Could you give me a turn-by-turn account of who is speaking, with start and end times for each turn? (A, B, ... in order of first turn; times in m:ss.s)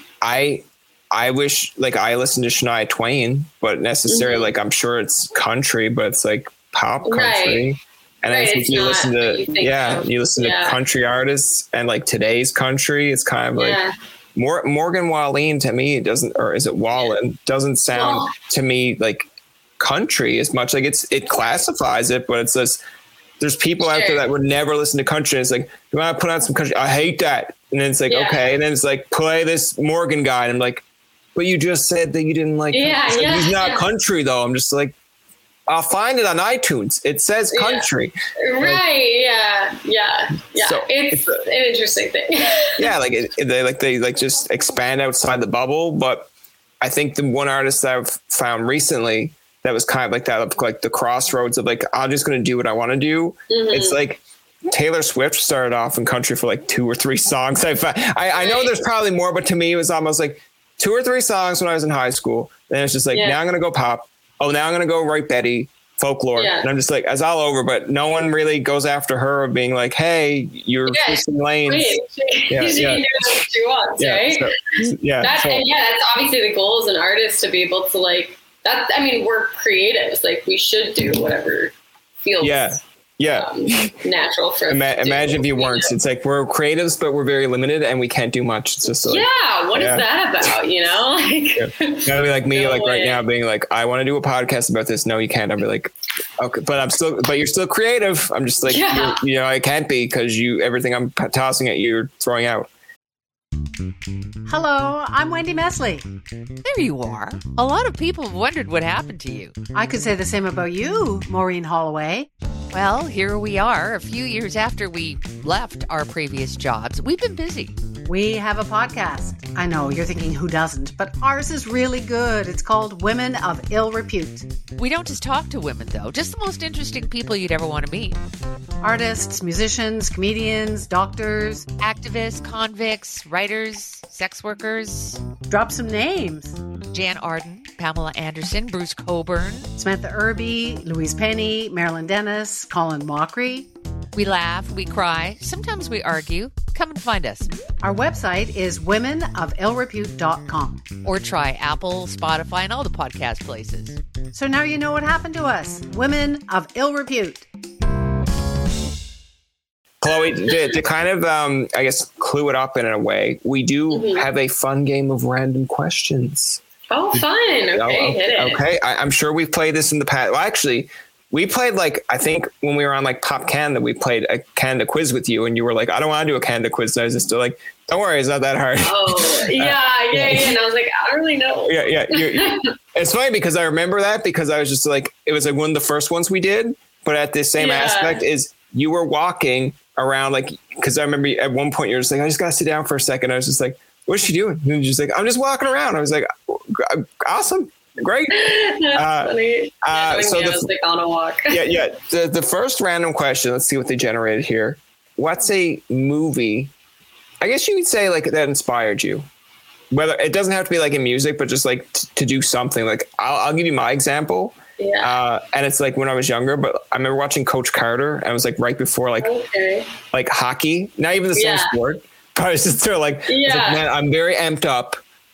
0:00.2-0:13.8 A
0:04.1-0:04.5 B
0:07.0-0:07.7 B
0:08.3-0:10.8 B
0:13.6-0:13.9 B
0:14.4-0:19.2 A
0:17.9-0:18.3 B
0:19.8-0:22.8 A
0:23.4-0:30.8 A
0:23.9-0:24.2 B
0:28.1-0:28.4 B
0:31.4-0:34.9 A
0:32.7-0:33.8 B
0:35.7-0:38.8 A
0:37.5-0:37.9 B
0:38.4-0:42.8 B
0:40.6-0:41.4 A
0:42.8-0:46.3 A
0:46.8-1:12.0 A
0:53.5-0:54.0 B
0:58.4-0:58.7 B
1:03.1-1:03.4 B
1:06.4-1:06.7 B
1:10.9-1:14.5 B
1:12.5-1:13.4 A
1:14.0-1:15.6 A
1:15.2-1:25.9 B
1:22.4-1:24.0 A
1:24.7-1:30.0 A
1:29.1-1:33.2 B
1:31.6-1:42.7 A
1:38.7-1:39.2 B
1:44.5-1:46.1 C
1:46.6-1:49.6 D
1:49.7-1:52.3 C
1:52.7-1:57.8 D
1:58.0-2:04.5 C
2:04.8-2:08.2 D
2:08.8-2:11.7 C
2:11.8-2:15.2 D
2:15.5-2:16.6 C
2:16.9-2:19.7 D
2:19.8-2:23.7 C
2:24.2-2:27.5 D
2:27.8-2:30.9 C
2:31.0-2:34.0 D
2:34.3-2:37.5 C
2:40.0-2:46.6 A
2:40.1-2:40.6 B
2:43.9-2:44.3 B
2:46.9-2:48.6 B
2:47.2-3:00.6 A
2:58.8-3:02.7 B
3:01.7-3:20.7 A
3:07.6-3:08.2 B
3:18.3-3:21.8 B
3:21.5-3:26.7 A
3:27.4-3:29.2 A
3:29.9-3:39.3 A
3:34.8-3:35.1 B
3:39.2-3:39.9 B
3:40.1-3:45.0 A
3:41.4-3:41.8 B
3:43.3-3:43.8 B